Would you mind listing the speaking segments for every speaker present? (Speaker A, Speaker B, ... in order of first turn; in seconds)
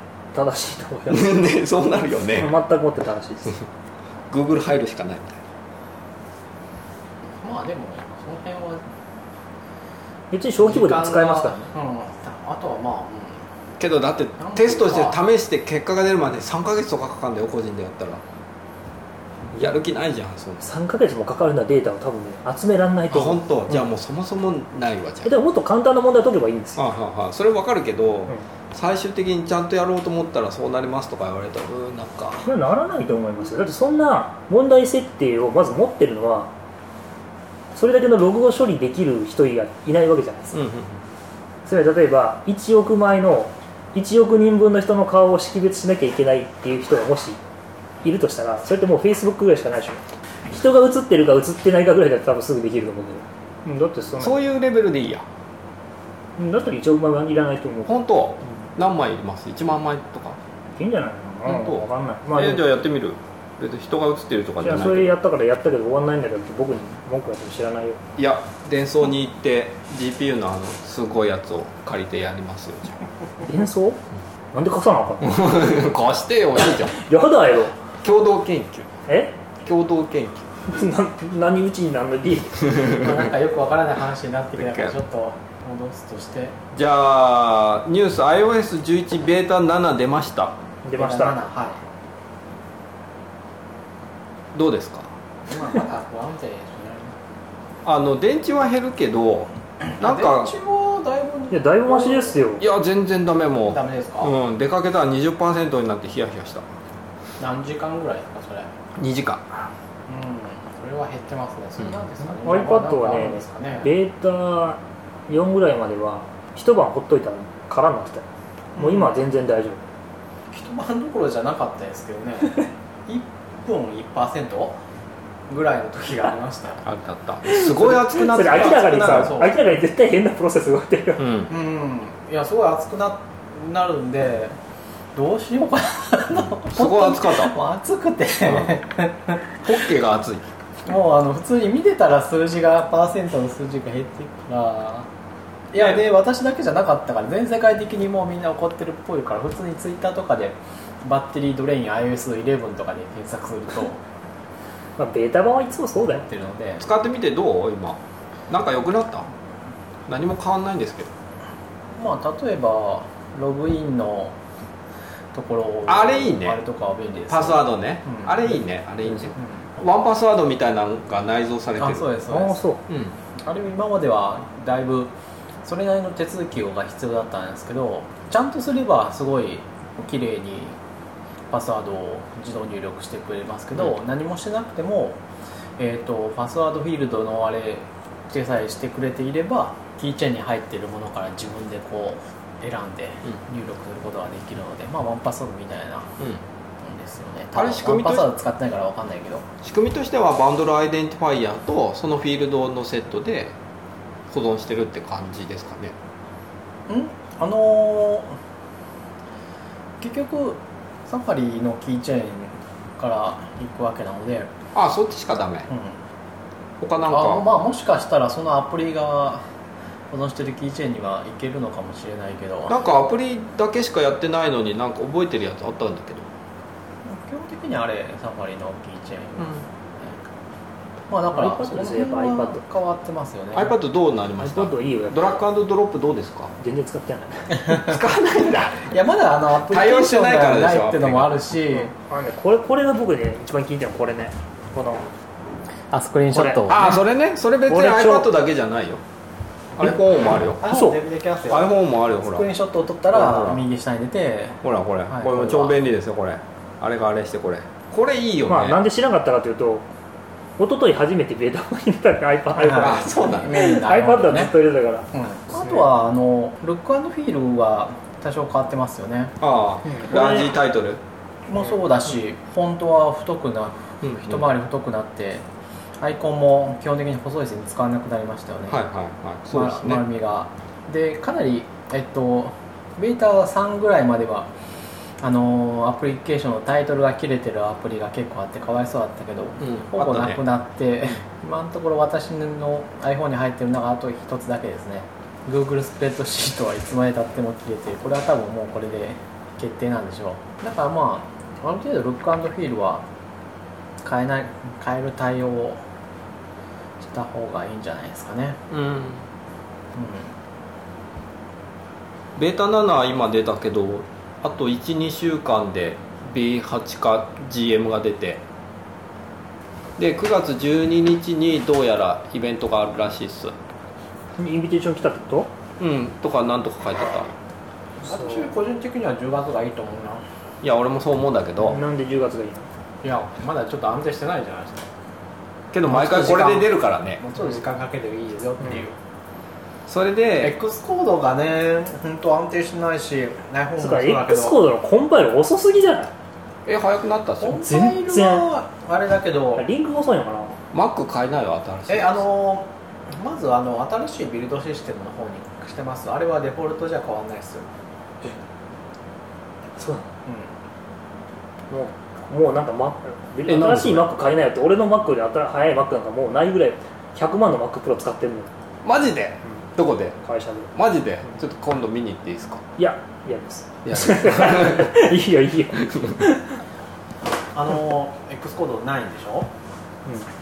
Speaker A: 0.3-1.5, 2.4-3.6, 10.3-11.7, 20.6-23.4, 25.2-26.8, 32.4-36.5, 37.7-40.5, 41.6-47.4, 48.0-54.4, 56.4-58.0, 60.8-62.6, 64.6-68.0, 73.4-74.0, 74.5-75.8, 76.6-77.7, 79.1-79.3, 80.7-82.9, 90.8-91.4, 101.5-102.6, 112.3-118.2, 118.8-119.8, 127.5-131.2, 155.0-156.2, 172.3-172.8, 231.3-232.6, 234.4-235.2, 236.6-237.7, 241.7-245.1, 246.3-246.9, 247.7-248.3, 250.7-251.0, 258.5-259.8, 260.6-265.8, 269.8-270.5, 324.4-325.5, 328.1-328.4, 331.6-332.7, 343.8-346.1, 347.5-348.5, 349.6-350.6, 359.8-360.1, 361.7-368.5, 370.2-370.7, 372.8-376.6
Speaker B: 1.1-2.5, 4.3-5.4, 13.8-18.2, 19.6-20.6, 23.1-25.3, 26.8-32.5, 40.5-41.0, 54.2-55.2, 57.9-60.4, 61.5-65.1, 68.2-73.0, 75.2-77.0, 78.0-78.9, 79.6-80.5, 84.6-84.9, 86.7-90.5, 94.5-95.1, 97.8-100.5, 102.6-106.6, 109.0-109.7, 126.8-129.3, 131.2-131.5, 136.6-137.6, 139.6-140.5, 156.8-159.3, 160.1-161.1, 165.9-166.6, 167.3-172.1, 172.9-173.1, 197.5-198.3, 199.6-203.5, 204.3-205.9, 214.7-215.7, 216.8-217.5, 222.7-226.3, 233.5-236.5, 237.7-238.9, 239.7-241.4, 246.7-249.0, 249.8-250.6, 251.5-252.4, 253.1-253.6, 254.6-258.8, 262.7-263.5, 269.4-271.0, 274.0-274.5, 278.7-280.0, 289.6-290.4, 308.7-309.2, 312.4-318.4, 320.0-323.5, 325.8-327.3, 330.6-331.8, 335.7-337.2, 339.9-340.5, 346.6-347.6, 350.7-352.2, 363.4-364.1, 368.8-370.2, 370.7-372.6, 373.8-374.9, 375.8-376.1
Speaker C: 7.4-8.8, 10.6-13.4, 14.4-15.2, 82.8-86.5, 91.0-91.8, 95.5-97.1, 99.8-102.4, 103.7-104.3, 107.4-108.7, 110.1-113.9, 118.7-119.2, 120.5-124.8, 125.5-126.8, 128.0-129.6, 131.5-134.6, 135.1-139.4, 140.8-145.1, 145.7-154.0, 156.0-156.8, 161.9-164.3, 165.3-168.3, 171.8-172.6, 173.4-175.1, 175.6-180.8, 181.5-185.2, 185.8-196.1, 196.8-199.4, 206.9-208.4, 210.0-214.5, 215.7-216.0, 217.1-219.4, 220.1-222.8, 227.0-230.2, 231.1-233.7, 238.8-241.9, 245.9-246.9, 250.6-255.8, 262.6-264.5, 265.1-269.3, 271.5-275.4, 276.0-278.8, 279.5-284.5, 285.2-303.0, 304.0-305.8, 307.0-308.6, 309.9-310.3, 328.0-330.2, 333.0-334.9, 335.9-338.9, 340.4-344.6, 347.4-349.6, 351.9-357.7, 360.2-360.5, 377.5-379.5